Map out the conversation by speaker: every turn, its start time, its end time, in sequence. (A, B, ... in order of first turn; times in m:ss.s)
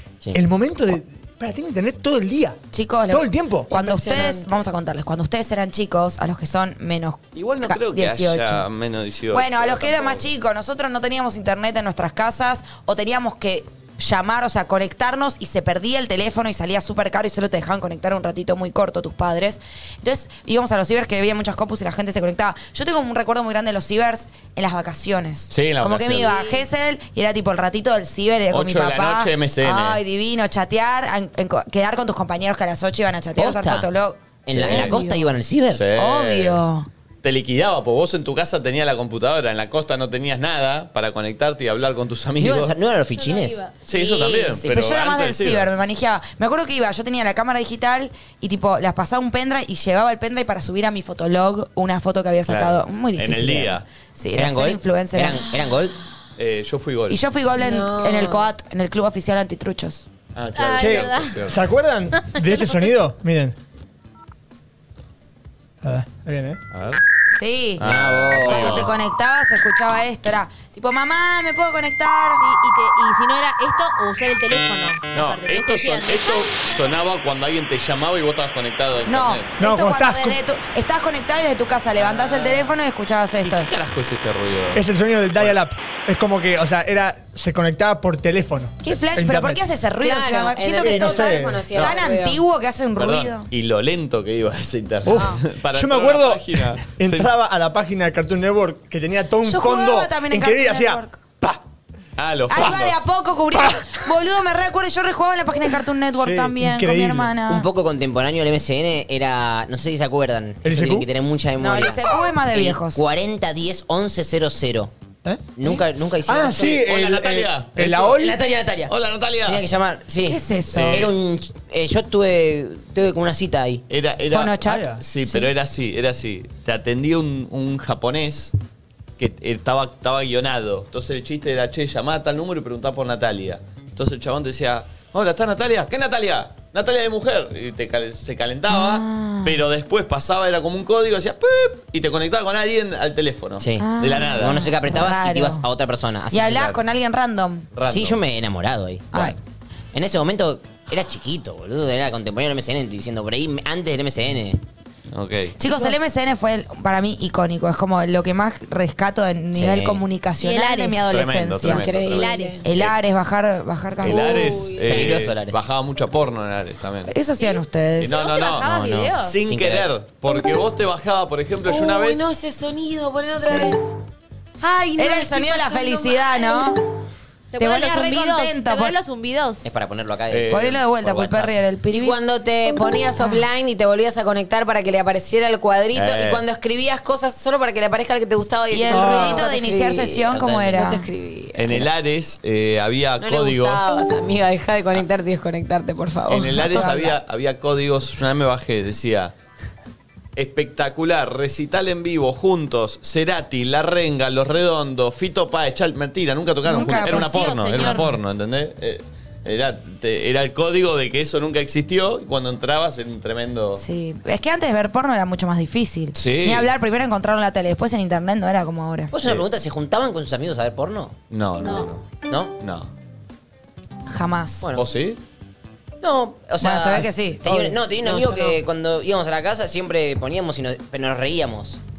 0:00.3-0:02.6 A
0:02.7-0:08.6 B
0:03.1-0:03.7 A
0:03.7-0:04.5 C
0:07.4-0:10.3 D
0:09.3-0:35.1 B
0:25.5-0:26.3 D
0:26.3-0:26.5 C
0:28.5-0:30.0 D
0:33.4-0:33.9 E
0:34.5-0:35.8 E
0:34.5-0:35.0 D
0:35.7-0:36.6 D
0:35.9-0:36.9 B
0:37.2-0:42.8 D
0:42.4-0:43.6 E
0:43.1-0:43.8 F
0:43.9-0:45.7 D
0:44.0-0:44.6 C
0:44.5-0:55.5 B
0:52.5-0:53.8 D
0:54.3-0:56.0 E
0:56.4-0:57.2 D
0:57.1-1:00.1 B
0:57.6-0:58.5 C
1:00.4-1:01.6 D
1:00.6-1:01.4 F
1:00.8-1:03.6 A
1:02.2-1:02.6 F
1:05.8-1:06.6 A
1:06.7-1:07.0 D
1:07.3-1:07.9 B
1:07.8-1:09.0 D
1:07.8-1:08.9 E
1:08.4-1:12.4 B
1:12.4-1:16.6 F
1:15.1-1:19.5 D
1:19.1-1:23.7 B
1:19.6-1:20.4 A
1:22.0-1:22.7 D
1:23.4-1:25.6 D
1:24.8-1:29.7 A
1:28.8-1:33.5 B
1:30.0-1:32.4 C
1:30.8-1:31.7 A
1:33.0-1:37.3 D
1:35.1-1:41.6 A
1:39.4-1:41.2 B
1:42.2-1:43.1 D
1:42.5-1:47.7 B
1:46.2-1:47.4 A
1:47.5-1:54.9 E
1:50.6-1:51.1 A
1:51.6-1:53.0 B
1:55.2-1:58.4 A
1:55.6-1:56.8 E
1:56.6-1:58.1 D
1:58.0-1:58.9 E
1:58.9-1:59.6 D
1:59.4-2:03.8 E
2:00.2-2:01.1 B
2:00.7-2:01.1 D
2:03.9-2:08.5 D
2:04.3-2:05.5 B
2:04.7-2:05.0 A
2:09.2-2:24.6 D
2:18.7-2:19.6 B
2:23.6-2:26.6 E
2:23.8-2:25.7 B
2:26.3-2:27.7 B
2:26.5-2:26.8 D
2:27.8-2:28.2 D
2:27.8-2:29.4 E
2:29.9-2:34.6 E
2:35.1-2:35.6 D
2:35.6-2:41.8 B
2:39.5-2:40.0 E
2:40.4-2:41.2 F
2:41.0-2:43.0 D
2:41.7-2:42.6 C
2:42.0-2:42.6 F
2:42.6-2:44.6 B
2:44.0-2:47.1 D
2:44.1-2:45.1 C
2:44.9-2:45.6 E
2:47.1-2:48.2 B
2:47.4-2:49.4 F
2:48.0-2:52.3 D
2:49.4-2:49.9 E
2:51.7-2:53.9 C
2:53.4-2:53.8 B
2:54.6-2:56.6 C
2:55.0-2:56.8 B
2:57.5-2:59.7 F
2:57.6-2:59.0 B
2:59.6-3:01.5 E
3:00.3-3:01.2 D
3:00.5-3:02.2 B
3:01.9-3:11.8 C
3:03.2-3:03.5 B
3:05.9-3:06.4 D
3:08.7-3:11.0 B
3:08.9-3:09.4 A
3:10.3-3:10.9 E
3:11.6-3:14.0 D
3:13.2-3:16.9 C
3:16.3-3:19.3 D
3:16.6-3:17.2 B
3:20.4-3:33.8 D
3:26.6-3:28.0 B
3:26.8-3:28.1 F
3:33.8-3:39.1 B
3:36.2-3:36.7 D
3:39.1-3:41.2 E
3:41.3-3:42.9 D
3:41.6-3:41.9 F
3:42.2-3:42.5 E
3:44.1-3:44.7 B
3:44.8-3:45.2 D
3:46.0-3:51.8 E
3:46.6-3:47.8 B
3:48.0-3:48.6 C